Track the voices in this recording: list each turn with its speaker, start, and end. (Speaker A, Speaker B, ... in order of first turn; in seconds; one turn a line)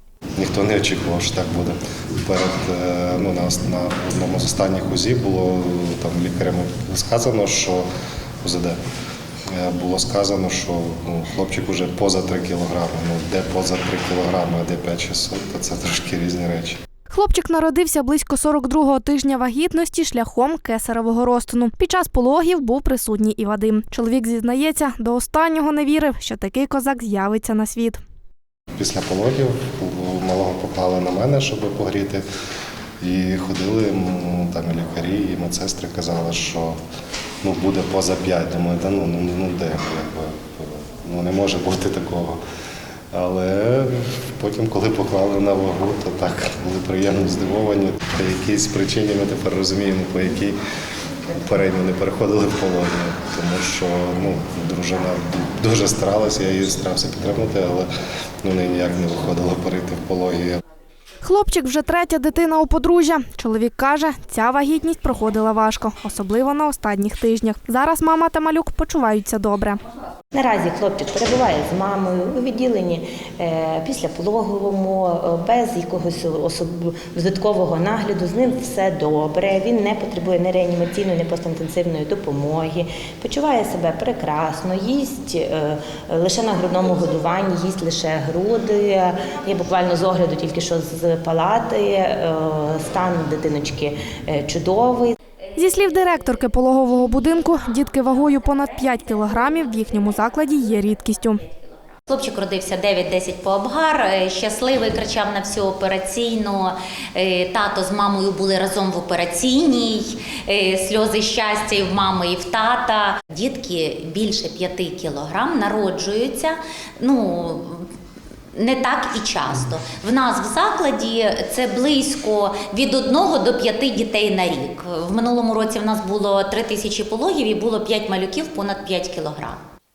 Speaker A: 0.3-7.9
Speaker A: 8.4-8.8
Speaker A: 9.5-16.8
Speaker B: 17.1-28.0
Speaker A: 28.8-32.2
Speaker A: 33.0-36.8
Speaker A: 37.4-42.4
Speaker A: 43.1-50.6
Speaker A: 51.3-57.9
Speaker A: 58.4-60.6
Speaker B: 61.2-69.8
Speaker C: 70.3-95.2
Speaker B: 95.5-101.4
Speaker D: 102.1-117.9
Speaker D: 118.5-129.6